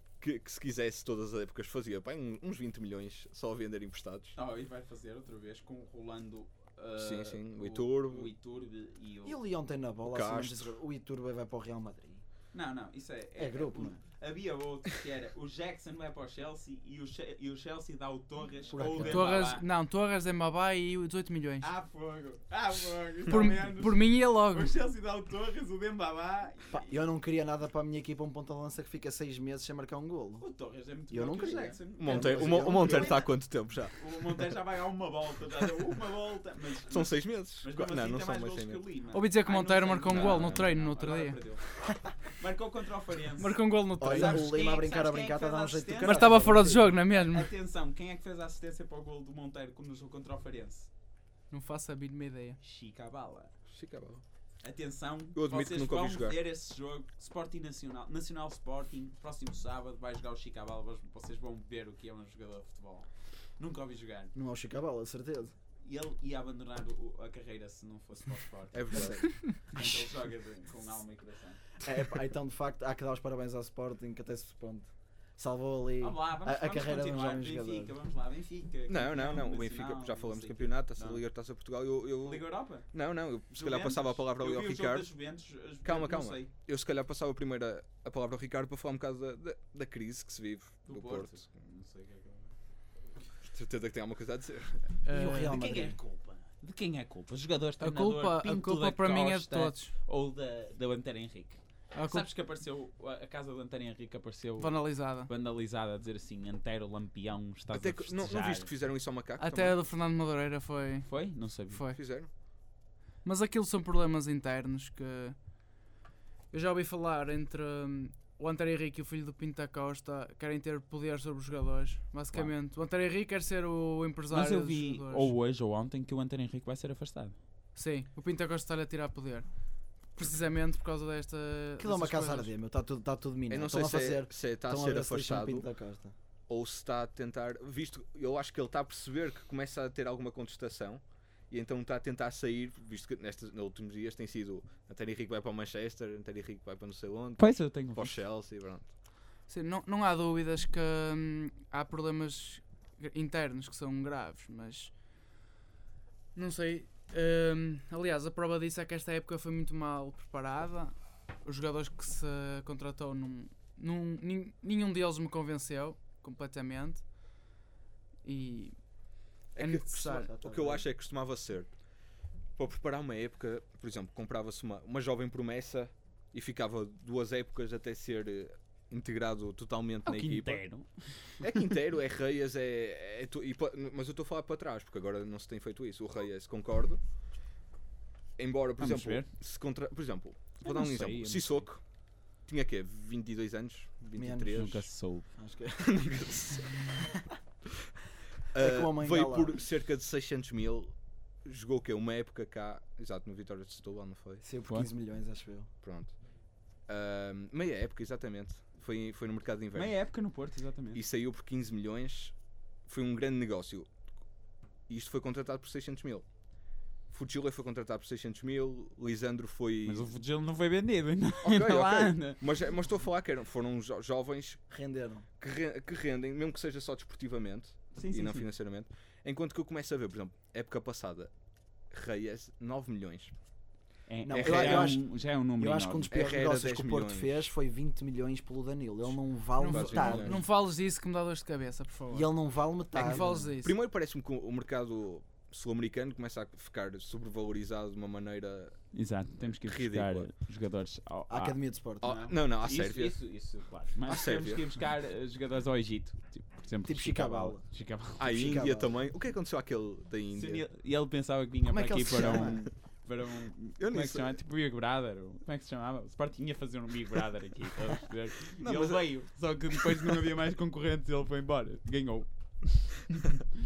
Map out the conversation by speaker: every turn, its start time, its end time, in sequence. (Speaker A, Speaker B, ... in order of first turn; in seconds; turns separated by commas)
Speaker A: 0.2-4.4, Speaker B: 4.3-9.4, Speaker A: 7.0-8.3, Speaker C: 9.2-12.2, Speaker A: 10.1-10.7, Speaker B: 12.5-19.6, Speaker C: 13.4-14.0, Speaker C: 18.7-19.4, Speaker D: 19.0-21.7, Speaker B: 21.6-26.9, Speaker D: 23.3-24.7, Speaker C: 26.7-30.4, Speaker B: 30.4-33.4, Speaker C: 31.1-33.2, Speaker A: 32.0-34.0, Speaker B: 33.9-50.9, Speaker A: 36.9-38.8, Speaker D: 39.1-41.4, Speaker A: 40.1-40.6, Speaker D: 43.4-44.5, Speaker C: 44.0-46.9, Speaker D: 46.0-47.5, Speaker D: 51.5-52.6, Speaker B: 52.6-53.5, Speaker A: 53.7-54.2, Speaker B: 54.6-64.3, Speaker A: 55.3-56.4, Speaker C: 64.3-65.5, Speaker B: 65.8-71.7, Speaker A: 68.7-69.4, Speaker C: 68.9-69.2, Speaker C: 69.7-70.0, Speaker C: 71.8-77.9, Speaker B: 76.0-81.2, Speaker A: 78.9-85.1, Speaker B: 82.2-82.9, Speaker B: 83.5-86.5, Speaker A: 85.8-91.3, Speaker B: 90.8-92.5, Speaker A: 93.4-94.9, Speaker D: 95.0-95.6, Speaker C: 95.1-96.0, Speaker B: 95.3-108.7, Speaker D: 97.8-99.9, Speaker D: 101.9-102.3, Speaker D: 104.6-105.3, Speaker A: 107.7-109.7, Speaker D: 109.4-111.1, Speaker B: 111.0-111.8, Speaker D: 111.7-112.0, Speaker A: 111.9-112.3, Speaker D: 113.2-115.4, Speaker D: 116.5-125.3, Speaker B: 124.3-127.3, Speaker D: 127.7-129.4, Speaker D: 130.1-132.5, Speaker C: 131.8-136.1, Speaker A: 133.5-135.7, Speaker A: 136.5-148.9, Speaker B: 147.4-148.2, Speaker D: 149.5-154.9, Speaker D: 156.3-167.1, Speaker D: 168.2-168.8, Speaker D: 169.5-170.3, Speaker A: 169.5-171.7, Speaker C: 170.0-170.8, Speaker A: 172.6-180.6, Speaker B: 180.0-181.5, Speaker A: 181.4-187.0, Speaker A: 188.4-191.8, Speaker B: 188.8-189.3, Speaker B: 190.6-191.6, Speaker A: 192.4-194.8, Speaker C: 194.2-194.6, Speaker B: 194.5-195.3, Speaker C: 195.3-196.1, Speaker A: 195.8-197.0, Speaker A: 198.5-204.4, Speaker C: 198.5-199.6, Speaker C: 204.4-205.7, Speaker A: 205.8-206.1, Speaker A: 206.9-210.0, Speaker B: 209.7-211.0, Speaker A: 210.9-212.3, Speaker A: 212.9-213.9, Speaker A: 214.9-216.2, Speaker A: 217.1-220.1, Speaker B: 219.8-222.4, Speaker A: 221.4-224.6, Speaker C: 224.7-225.2, Speaker A: 225.4-231.3, Speaker B: 227.9-228.4, Speaker A: 231.9-233.3, Speaker B: 234.1-236.1, Speaker C: 234.2-240.4, Speaker A: 234.3-235.0, Speaker A: 236.1-237.4, Speaker D: 239.6-242.3, Speaker A: 239.7-240.4, Speaker C: 242.1-243.5, Speaker D: 242.9-243.7, Speaker A: 243.0-248.8, Speaker B: 248.9-258.6, Speaker A: 249.4-250.3, Speaker C: 251.3-252.1, Speaker A: 252.0-253.2, Speaker A: 254.1-254.6, Speaker C: 256.8-257.6, Speaker A: 258.2-260.6, Speaker C: 258.2-258.9, Speaker B: 260.3-273.4, Speaker C: 261.7-262.7, Speaker A: 262.1-262.7, Speaker A: 263.8-264.3, Speaker A: 268.6-269.1